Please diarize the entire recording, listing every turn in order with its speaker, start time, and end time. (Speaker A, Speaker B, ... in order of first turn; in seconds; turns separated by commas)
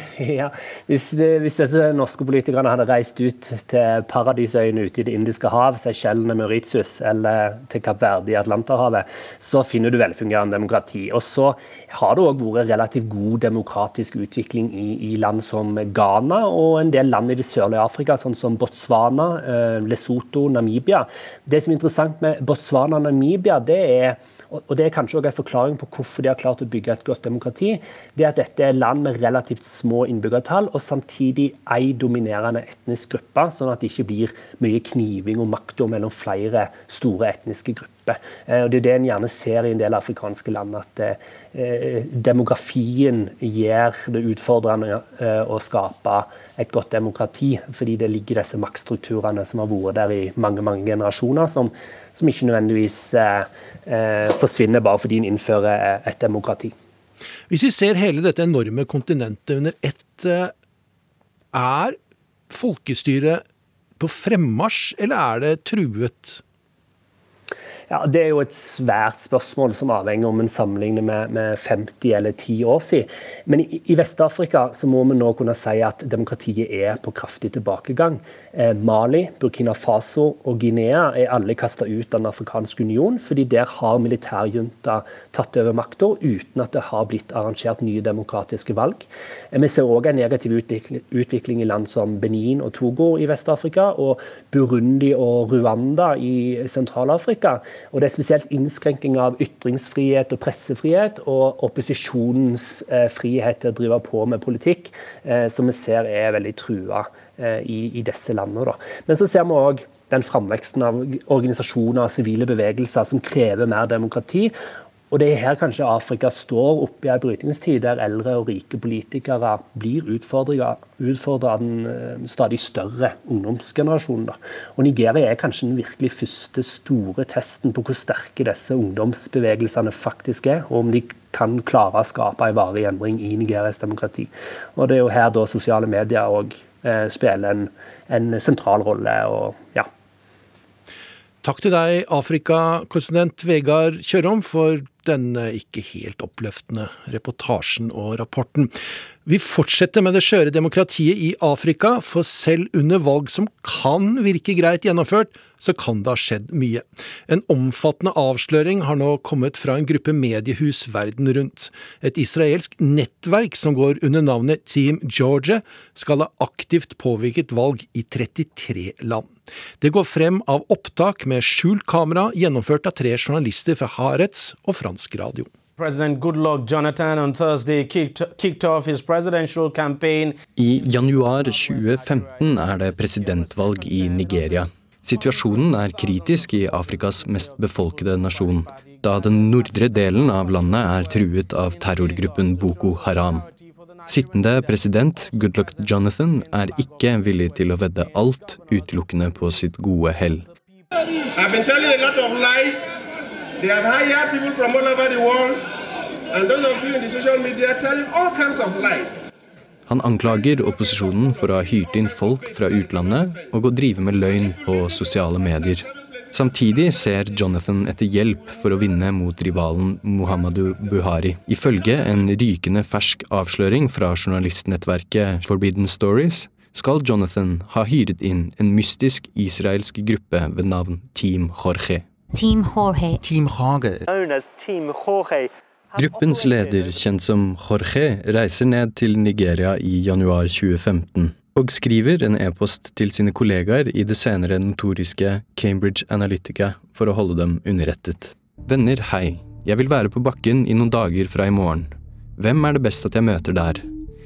Speaker A: 0.1-56.8, Speaker B: 57.5-60.5, Speaker B: 61.5-62.0, Speaker B: 62.5-63.4, Speaker B: 64.0-66.4, Speaker A: 67.9-114.5, Speaker A: 115.1-139.9, Speaker B: 141.4-148.7, Speaker B: 149.2-175.5, Speaker C: 175.8-180.4, Speaker D: 180.6-193.5, Speaker D: 194.1-200.5, Speaker E: 201.3-202.9, Speaker E: 203.6-205.7, Speaker E: 206.3-209.2, Speaker D: 209.9-232.1, Speaker F: 234.1-237.0, Speaker D: 235.9-253.9